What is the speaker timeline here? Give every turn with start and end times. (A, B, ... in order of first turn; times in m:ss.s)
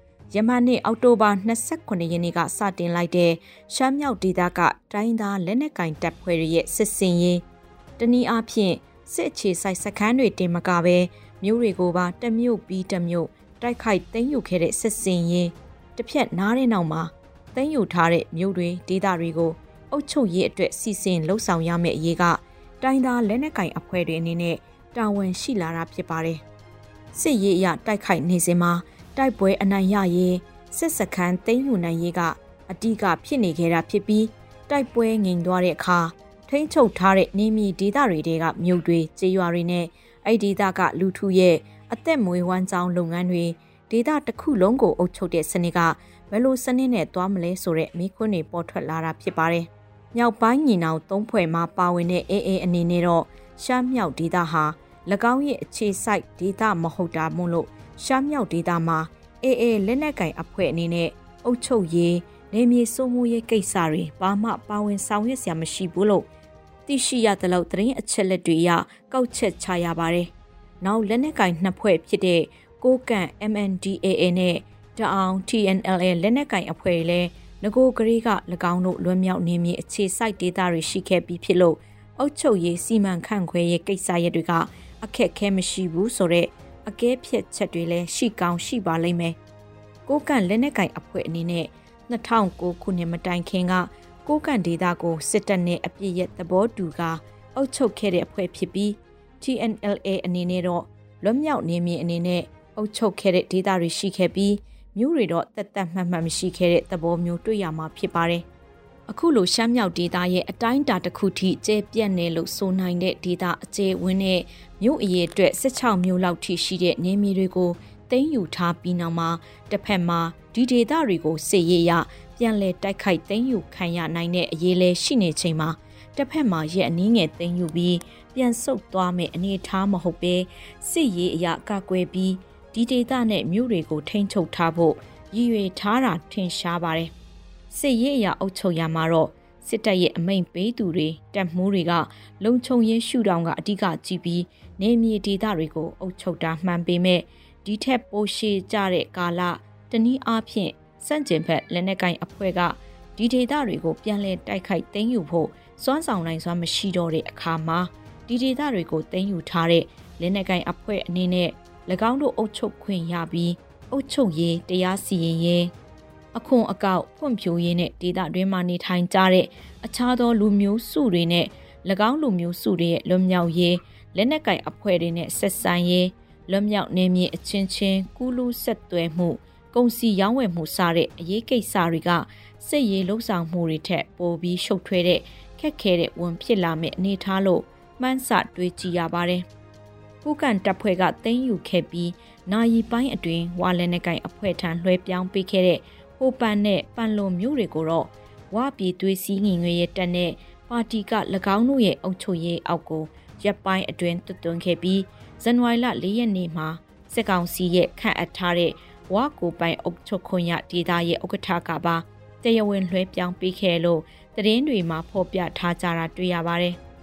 0:00.3-0:07.4 A
0:08.0-0:26.4 A
0:27.1-1:06.3 A
1:06.9-1:29.4 A
1:30.1-1:48.4 A
1:49.1-2:17.1 A
2:17.7-2:45.7 A
2:46.3-3:09.4 A
3:10.2-3:36.8 A